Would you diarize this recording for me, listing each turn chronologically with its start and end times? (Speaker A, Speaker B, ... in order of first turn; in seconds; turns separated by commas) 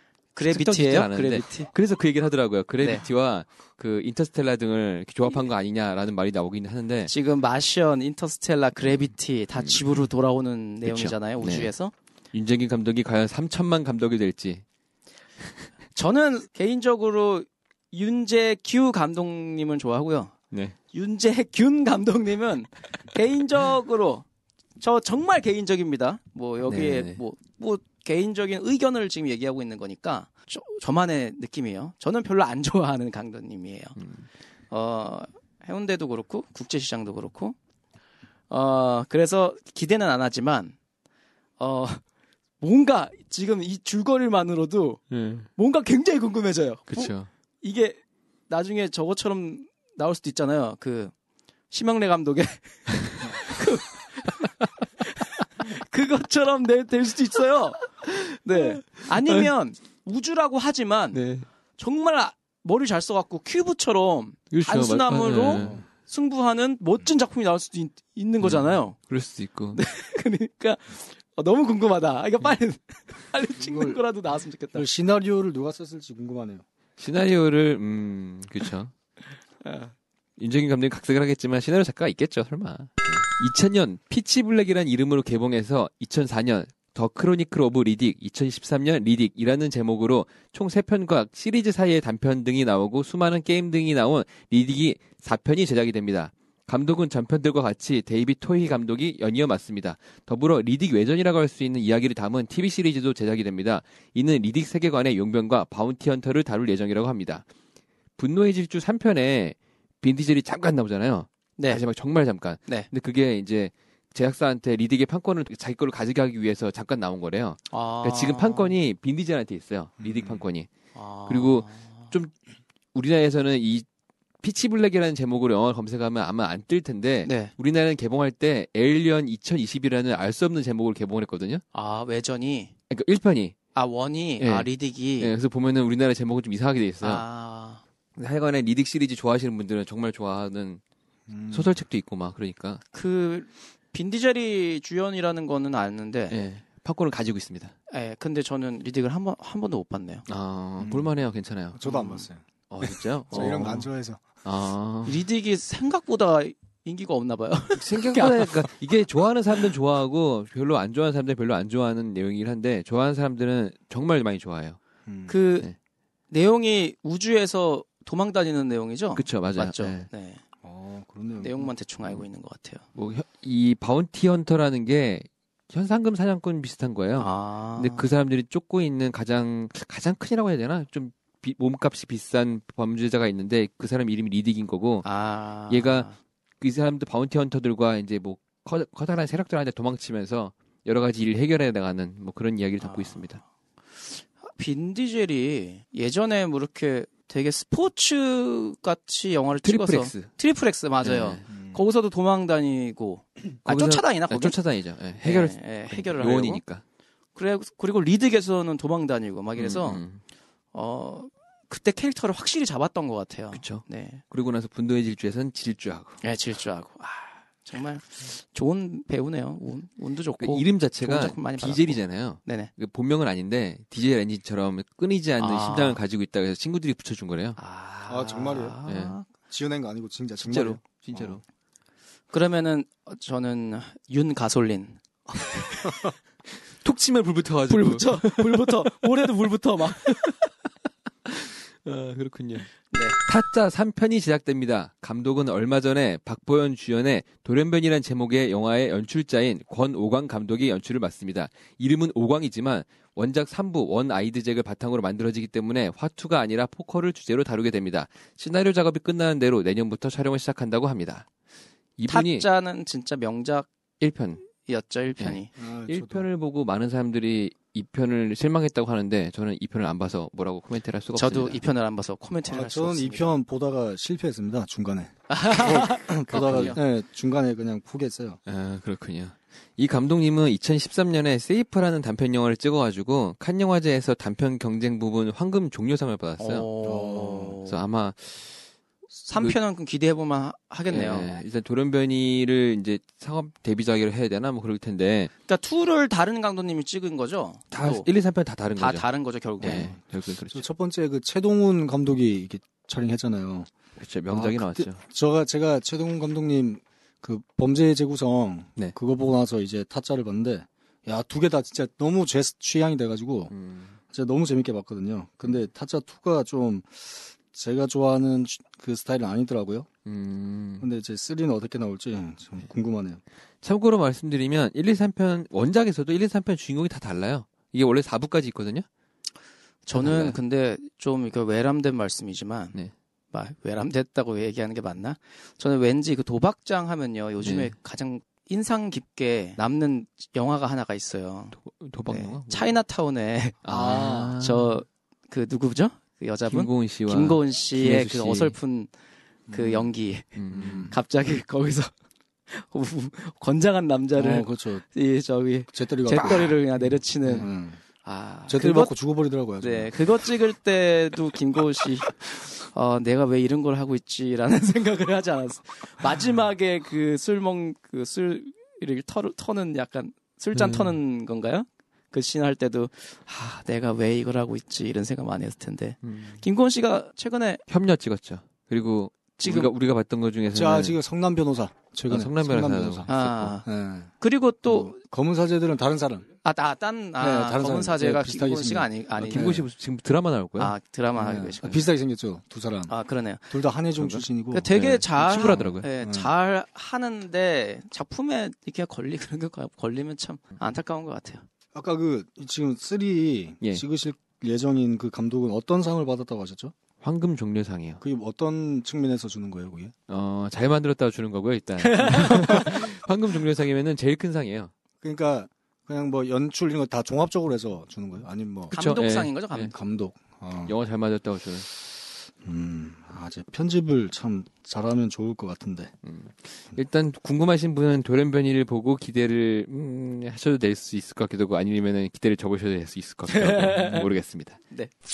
Speaker A: 0.3-1.7, Speaker B: 0.5-7.1, Speaker A: 7.0-11.9, Speaker B: 9.6-9.8, Speaker B: 10.8-11.7, Speaker B: 12.3-14.6, Speaker A: 15.9-20.3, Speaker A: 20.9-24.2, Speaker A: 24.8-34.0, Speaker B: 26.7-27.2, Speaker B: 34.0-34.3, Speaker A: 34.7-37.6, Speaker A: 38.5-40.8, Speaker A: 41.6-42.0, Speaker A: 42.6-45.0, Speaker B: 45.1-45.5, Speaker A: 45.5-51.1, Speaker B: 46.9-47.3, Speaker A: 51.7-61.2, Speaker B: 58.6-59.5, Speaker B: 61.1-61.5, Speaker A: 61.8-69.0, Speaker B: 64.5-65.8, Speaker C: 65.5-65.8, Speaker B: 68.4-69.8, Speaker A: 69.7-74.9, Speaker C: 73.5-74.0, Speaker C: 74.7-76.6, Speaker B: 77.0-78.9, Speaker A: 79.6-79.9, Speaker B: 80.4-107.5, Speaker B: 108.2-120.7, Speaker A: 111.6-111.8, Speaker A: 117.7-118.8, Speaker C: 120.0-120.5, Speaker A: 120.9-122.1, Speaker B: 121.3-122.3, Speaker B: 123.0-123.9, Speaker B: 124.4-131.6, Speaker A: 127.2-127.5, Speaker A: 131.7-132.7, Speaker B: 132.9-133.6, Speaker A: 133.7-135.3, Speaker B: 134.4-137.2, Speaker A: 137.0-137.8, Speaker B: 138.2-140.8, Speaker C: 141.3-141.8, Speaker B: 141.5-142.8, Speaker A: 142.9-146.4, Speaker B: 146.3-147.7, Speaker A: 147.9-150.3, Speaker B: 150.3-151.8, Speaker C: 150.8-151.2, Speaker C: 151.7-154.3, Speaker A: 151.8-152.3, Speaker B: 152.7-153.9, Speaker A: 153.3-153.7, Speaker B: 154.4-155.2, Speaker A: 155.1-158.7, Speaker B: 157.7-164.8, Speaker C: 165.1-165.5, Speaker A: 165.3-165.7, Speaker A: 166.3-170.4, Speaker B: 169.2-170.1, Speaker C: 170.6-171.7, Speaker A: 171.4-172.8, Speaker B: 172.9-185.1, Speaker A: 177.2-178.1, Speaker A: 185.0-186.2, Speaker B: 185.7-186.1, Speaker B: 186.6-193.4, Speaker A: 192.8-193.3, Speaker A: 194.0-204.6, Speaker B: 199.6-200.3, Speaker B: 201.0-201.4, Speaker C: 201.5-201.8, Speaker B: 203.7-206.8, Speaker A: 205.2-206.6, Speaker A: 207.4-210.0, Speaker B: 209.6-210.2, Speaker A: 210.7-214.2, Speaker B: 213.5-216.2, Speaker A: 216.2-222.7, Speaker B: 220.4-227.6, Speaker A: 225.4-226.0, Speaker A: 227.6-229.3, Speaker C: 228.1-228.8, Speaker B: 228.9-229.2, Speaker C: 229.4-231.4, Speaker B: 230.4-231.4, Speaker A: 232.3-236.1, Speaker C: 235.8-236.1, Speaker B: 236.8-238.9, Speaker A: 237.7-240.3, Speaker B: 239.9-240.5, Speaker B: 241.3-261.3, Speaker A: 242.9-243.2, Speaker B: 262.0-262.5, Speaker A: 262.1-263.7, Speaker B: 264.0-264.5, Speaker A: 264.5-265.5, Speaker B: 265.2-271.6, Speaker C: 265.6-266.3, Speaker A: 271.1-273.4, Speaker C: 272.4-278.4, Speaker A: 275.3-276.8, Speaker B: 276.3-276.8, Speaker B: 278.5-286.7, Speaker A: 286.4-287.8, Speaker C: 286.8-287.6, Speaker B: 287.6-288.5, Speaker A: 289.2-291.4, Speaker B: 290.9-295.3, Speaker A: 295.5-298.1, Speaker B: 297.7-300.7, Speaker A: 298.8-299.9, Speaker C: 299.6-303.7, Speaker B: 304.0-305.0, Speaker C: 304.3-313.5, Speaker B: 313.5-313.9, Speaker C: 314.1-319.9, Speaker B: 320.1-320.9, Speaker C: 320.8-323.2, Speaker B: 323.6-328.9, Speaker A: 329.9-332.8, Speaker B: 329.9-330.4, Speaker A: 333.3-341.6, Speaker B: 337.4-337.7, Speaker B: 341.6-342.8, Speaker A: 342.1-348.9, Speaker B: 343.6-344.8, Speaker B: 346.5-348.6, Speaker C: 349.5-349.9, Speaker A: 349.5-350.3, Speaker B: 350.4-350.9, Speaker C: 350.5-351.0, Speaker A: 350.9-351.9, Speaker A: 352.5-357.5, Speaker C: 354.2-354.8, Speaker C: 355.7-357.8, Speaker A: 358.0-359.0, Speaker C: 358.5-360.1, Speaker A: 359.6-377.6, Speaker B: 370.5-371.0, Speaker B: 376.0-376.4, Speaker B: 377.7-381.0, Speaker C: 380.5-383.1, Speaker B: 382.1-383.6, Speaker A: 383.1-383.7, Speaker C: 383.6-384.1, Speaker A: 384.2-384.9, Speaker C: 384.6-386.3, Speaker A: 386.4-389.6, Speaker C: 387.2-389.7, Speaker B: 389.2-390.7, Speaker A: 390.6-391.9, Speaker C: 391.1-394.8, Speaker A: 392.9-393.6, Speaker B: 394.0-395.9, Speaker A: 394.5-401.4, Speaker C: 395.4-396.3, Speaker C: 401.7-406.7, Speaker B: 407.0-408.0, Speaker C: 408.0-409.9, Speaker B: 410.1-414.7, Speaker A: 411.9-412.8, Speaker C: 415.0-418.8, Speaker A: 418.7-419.7, Speaker B: 418.7-419.7, Speaker C: 419.6-420.8, Speaker B: 420.6-421.7, Speaker C: 422.4-425.9, Speaker B: 426.0-434.6, Speaker A: 433.4-434.1